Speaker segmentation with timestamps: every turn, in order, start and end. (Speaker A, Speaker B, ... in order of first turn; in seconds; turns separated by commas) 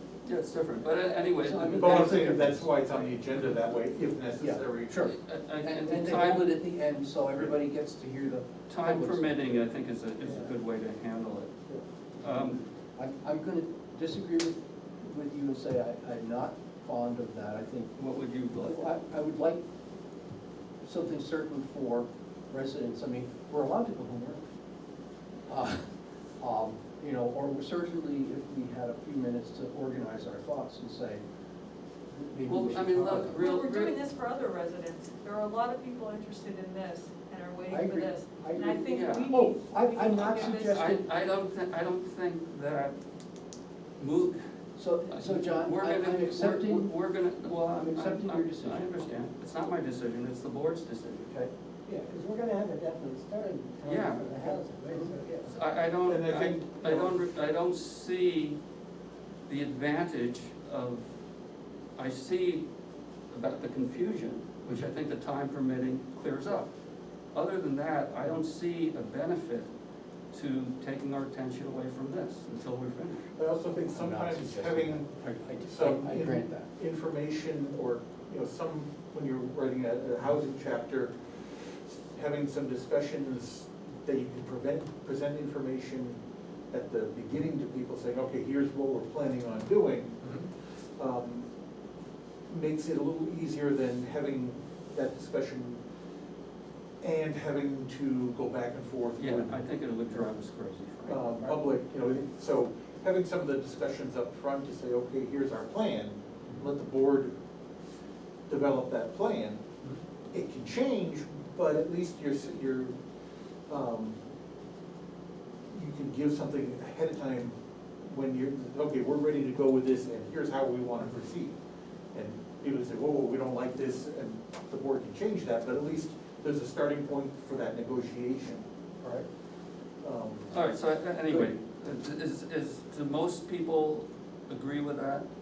Speaker A: 0.2-2.6, Speaker B: 1.4-3.0, Speaker C: 1.7-5.0, Speaker B: 4.4-9.6, Speaker A: 5.0-6.5, Speaker A: 8.7-11.5, Speaker B: 10.2-10.5, Speaker B: 11.7-17.9, Speaker A: 12.2-12.6, Speaker A: 18.0-18.9, Speaker B: 18.6-19.6, Speaker B: 20.8-24.4, Speaker B: 25.5-25.9, Speaker B: 26.4-31.2, Speaker B: 32.1-33.4, Speaker A: 32.5-33.9, Speaker D: 33.4-40.9, Speaker B: 37.7-41.0, Speaker A: 38.9-39.3, Speaker A: 40.1-42.9, Speaker A: 44.0-44.4, Speaker B: 44.8-46.9, Speaker A: 45.1-51.3, Speaker B: 47.7-49.1, Speaker E: 51.9-55.4, Speaker A: 53.8-54.4, Speaker B: 54.3-55.4, Speaker A: 55.5-58.6, Speaker C: 56.0-57.2, Speaker A: 59.5-61.1, Speaker A: 62.0-62.6, Speaker A: 63.3-66.7, Speaker A: 67.3-69.7, Speaker A: 70.3-73.3, Speaker C: 73.3-75.1, Speaker B: 73.7-76.7, Speaker C: 75.6-86.2, Speaker C: 86.7-90.5, Speaker C: 91.0-91.5, Speaker C: 92.5-95.8, Speaker C: 97.0-99.6, Speaker A: 99.2-101.2, Speaker C: 101.0-107.3, Speaker C: 108.5-109.6, Speaker C: 110.3-112.9, Speaker C: 113.7-114.2, Speaker C: 115.7-121.5, Speaker C: 122.1-128.6, Speaker C: 130.0-130.5, Speaker A: 130.5-135.2